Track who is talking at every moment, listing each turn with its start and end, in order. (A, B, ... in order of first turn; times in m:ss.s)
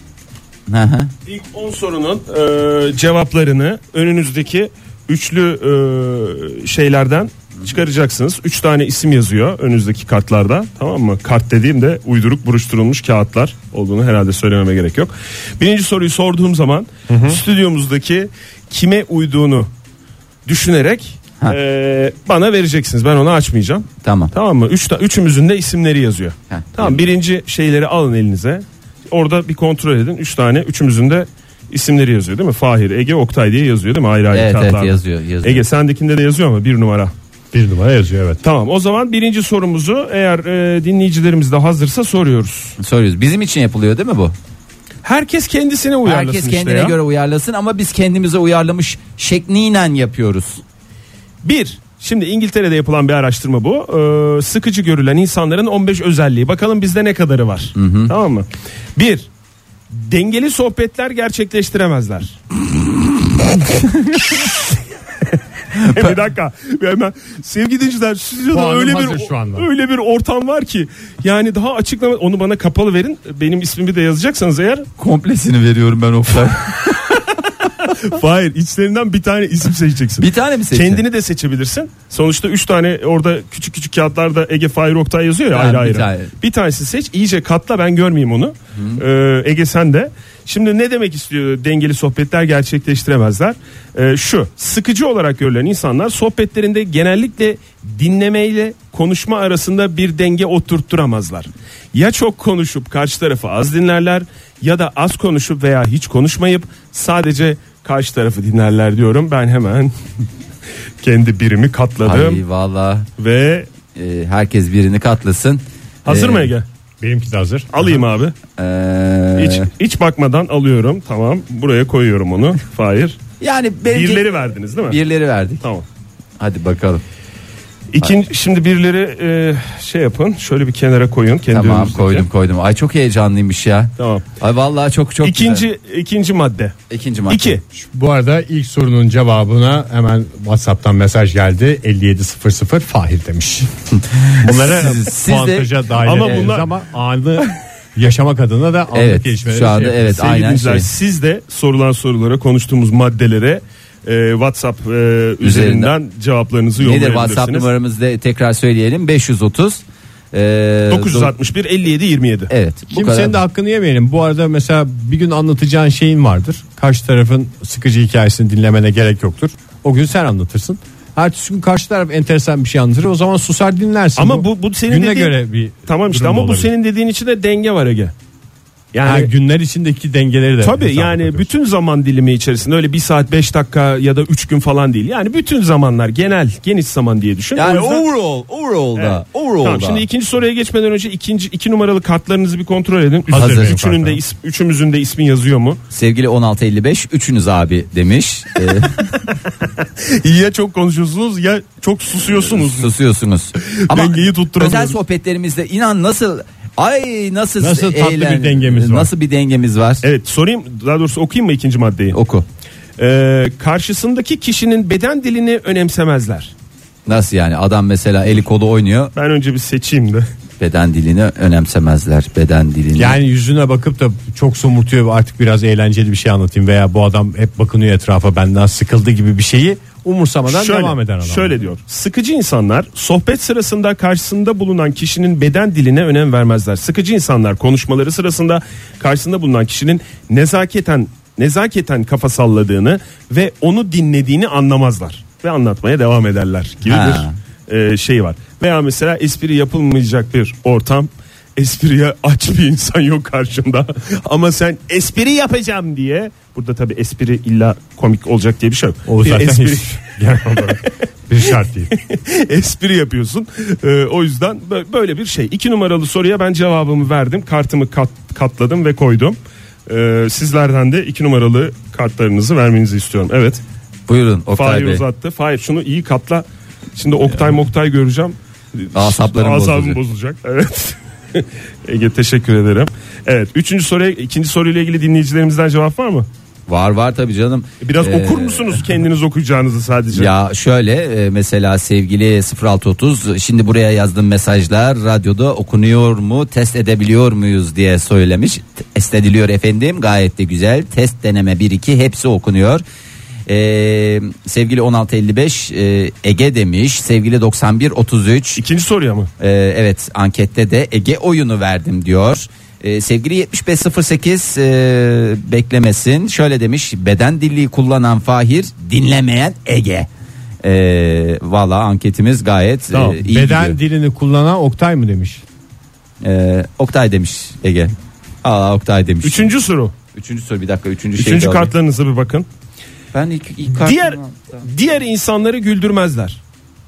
0:00.7-0:01.1 A
0:01.3-0:19.7 B
0:17.1-0:17.4 C
0:20.5-0:37.1 B
0:24.0-0:24.3 A
0:26.5-0:27.0 A
0:34.3-0:35.6 A
0:37.5-0:38.4 C
0:38.4-0:42.8 B
0:42.8-0:44.4 A
0:45.0-0:47.0 B
0:46.0-0:50.6 A
0:51.4-0:59.3 B
0:57.8-0:58.1 A
0:59.9-1:02.4 B
1:05.8-1:06.2 A
1:05.8-1:14.9 B
1:08.5-1:09.7 C
1:15.0-1:16.9 A
1:17.8-1:49.9 B
1:20.2-1:21.0 A
1:25.5-1:26.3 A
1:28.8-1:29.0 A
1:51.0-1:52.4 B
1:52.0-1:53.1 A
1:53.2-1:53.7 B
1:54.0-1:56.5 A
1:56.0-1:56.6 B
1:57.0-1:57.9 C
1:57.7-1:58.4 B
1:58.6-1:59.7 A
1:59.4-2:03.2 B
2:03.4-2:04.3 A
2:03.9-2:05.0 B
2:04.8-2:05.6 A
2:06.4-2:07.0 A
2:07.9-2:12.3 B
2:11.5-2:15.7 A
2:14.0-2:14.2 B
2:15.2-2:16.8 B
2:16.9-2:17.6 A
2:17.3-2:17.6 B
2:17.7-2:23.7 C
2:23.9-2:26.4 A
2:24.4-2:30.2 C
2:26.0-2:26.7 B
2:28.9-2:30.9 A
2:30.0-2:37.7 B
2:35.4-2:35.9 A
2:36.8-2:41.3 A
2:40.9-2:42.5 B
2:42.5-2:43.4 A
2:42.9-2:56.7 C
2:54.2-2:58.1 B
2:58.9-2:59.3 B
2:59.0-3:01.5 C
3:00.6-3:08.1 B
3:07.6-3:10.0 A
3:09.0-3:15.8 B
3:13.3-3:14.2 C
3:13.4-3:13.7 A
3:15.9-3:19.1 A
3:20.0-3:22.9 B
3:22.4-3:30.0 A
3:23.6-3:25.0 B
3:27.6-3:29.1 C
3:30.0-3:32.2 B
3:32.1-3:32.4 A
3:33.0-3:36.5 B
3:37.1-3:39.1 A
3:39.2-3:40.3 B
3:40.6-3:43.2 A
3:43.0-3:51.7 C
3:50.5-4:20.0 B
4:06.9-4:07.4 A
4:19.1-4:21.9 C
4:21.9-4:33.6 B
4:34.1-4:35.0 A
4:34.5-4:46.3 B
4:38.9-4:40.0 A
4:46.7-4:48.8 A
4:47.8-4:50.3 B
4:50.1-5:02.8 A
5:03.5-5:08.6 A
5:08.6-5:09.3 B
5:09.4-5:20.1 A
5:20.6-5:23.8 A
5:22.9-5:23.2 B
5:23.2-5:25.4 C
5:26.2-5:27.9 A
5:28.4-5:29.5 A
5:29.2-5:29.9 B
5:30.1-5:31.7 A
5:31.2-5:32.5 B
5:33.1-5:34.7 A
5:33.8-5:36.4 B